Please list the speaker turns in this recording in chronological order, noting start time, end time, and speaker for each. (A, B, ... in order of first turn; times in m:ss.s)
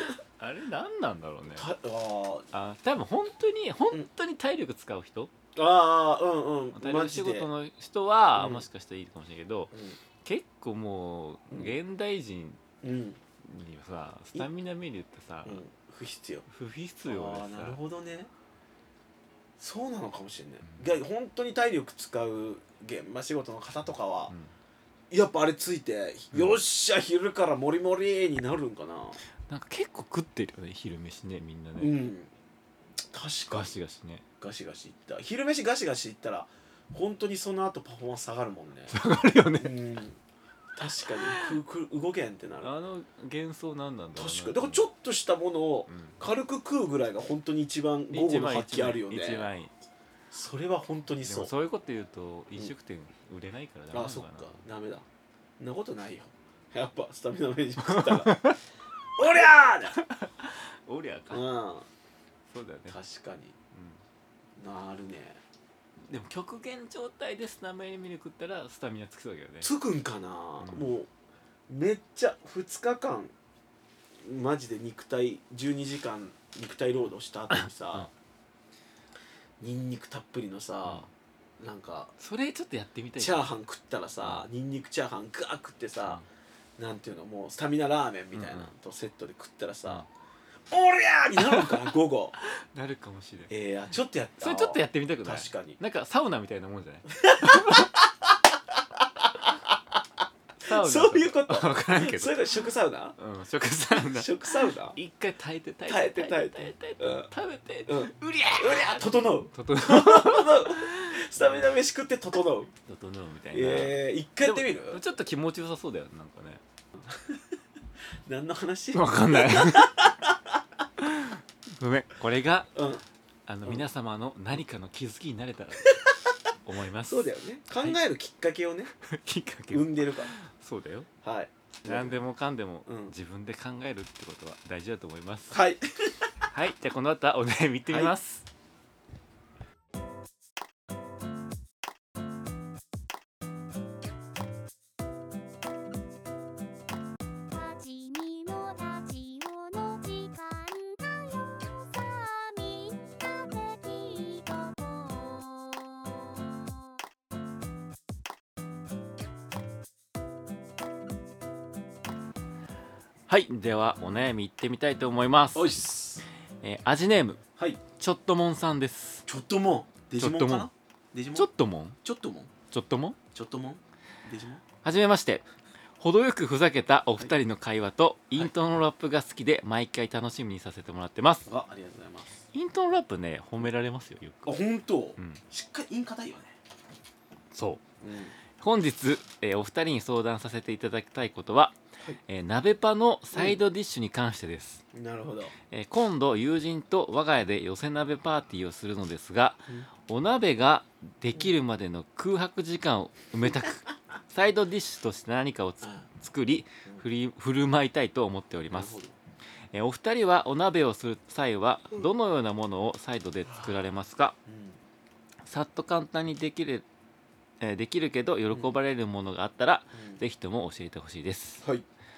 0:00.4-0:01.7 A
0:01.6-0:02.5 B
0:02.5-0:05.3 A
0:05.5-0:07.5 B
0:06.7-0:12.6 A
0:08.4-0:08.6 B
0:12.8-0:13.2 B
0:13.4-0:15.6 A
0:15.4-0:16.4 B
0:16.5-0:17.8 A
0:17.0-0:18.3 B
0:19.6-0:24.3 B
0:20.6-0:20.9 A
0:25.1-0:29.2 B
0:29.5-0:32.0 A
0:31.8-0:32.3 B
0:33.1-0:33.7 B
0:33.5-0:34.2 A
0:34.4-0:38.9 B
0:38.9-0:39.7 A
0:39.6-0:40.2 B
0:40.8-0:42.7 B
0:41.0-0:41.6 A
0:42.6-0:44.9 A
0:44.2-0:49.5 B
0:45.9-0:46.2 A
0:48.1-0:49.7 A
0:50.3-0:51.5 B
0:51.2-0:54.6 A
0:53.9-0:55.0 B
0:55.6-0:58.3 B
0:57.8-0:58.6 A
0:59.2-1:00.0 B
0:59.3-1:01.5 A
1:01.3-1:01.9 B
1:02.5-1:03.0 A
1:02.9-1:03.6 B
1:03.7-1:04.0 A
1:04.6-1:05.4 B
1:06.1-1:09.7 A
1:09.6-1:11.1 B
1:10.6-1:10.9 A
1:11.7-1:13.3 B
1:14.2-1:18.1 B
1:17.5-1:18.1 A
1:19.6-1:21.1 B
1:21.6-1:22.1 B
1:22.2-1:23.5 A
1:23.2-1:26.2 B
1:26.8-1:30.0 B
1:28.3-1:28.7 A
1:30.7-1:32.3 B
1:31.4-1:31.8 A
1:32.4-1:33.5 A
1:33.5-1:35.8 B
1:34.4-1:37.9 A
1:37.1-1:40.0 B
1:40.6-1:42.5 A
1:40.6-1:43.2 B
1:43.2-1:51.7 A
1:44.0-1:45.0 B
1:45.9-1:47.3 B
1:47.8-1:52.7 B
1:52.9-1:56.6 A
1:53.5-1:55.0 B
1:57.1-1:57.4 B
1:58.2-2:00.6 B
1:58.9-2:00.0 A
2:01.0-2:02.8 A
2:02.7-2:03.0 B
2:03.4-2:05.9 A
2:06.6-2:08.0 A
2:07.1-2:08.9 B
2:09.0-2:11.1 A
2:09.7-2:10.3 B
2:11.2-2:12.2 B
2:11.8-2:15.6 A
2:12.9-2:13.1 B
2:15.5-2:16.3 B
2:16.5-2:18.5 A
2:27.5-2:36.7 C
2:43.3-2:45.7 A
2:45.5-2:46.2 B
2:46.6-2:47.4 A
2:48.0-2:49.2 A
2:49.3-2:51.5 B
2:50.2-2:50.7 A
2:51.3-2:52.0 A
2:52.0-2:52.5 B
2:52.7-2:53.2 A
2:53.3-2:54.6 B
2:54.8-2:55.4 A
2:56.0-3:01.5 A
3:01.4-3:02.4 B
3:02.5-3:04.5 A
3:04.4-3:06.5 B
3:05.2-3:05.4 A
3:07.5-3:07.8 A
3:08.0-3:08.3 B
3:08.6-3:14.8 A
3:14.9-3:15.5 B
3:15.7-3:29.0 A
3:28.7-3:29.2 B
3:29.7-3:34.4 A
3:34.4-3:34.8 B
3:35.4-3:36.8 A
3:37.6-3:41.6 A
3:39.9-3:40.2 B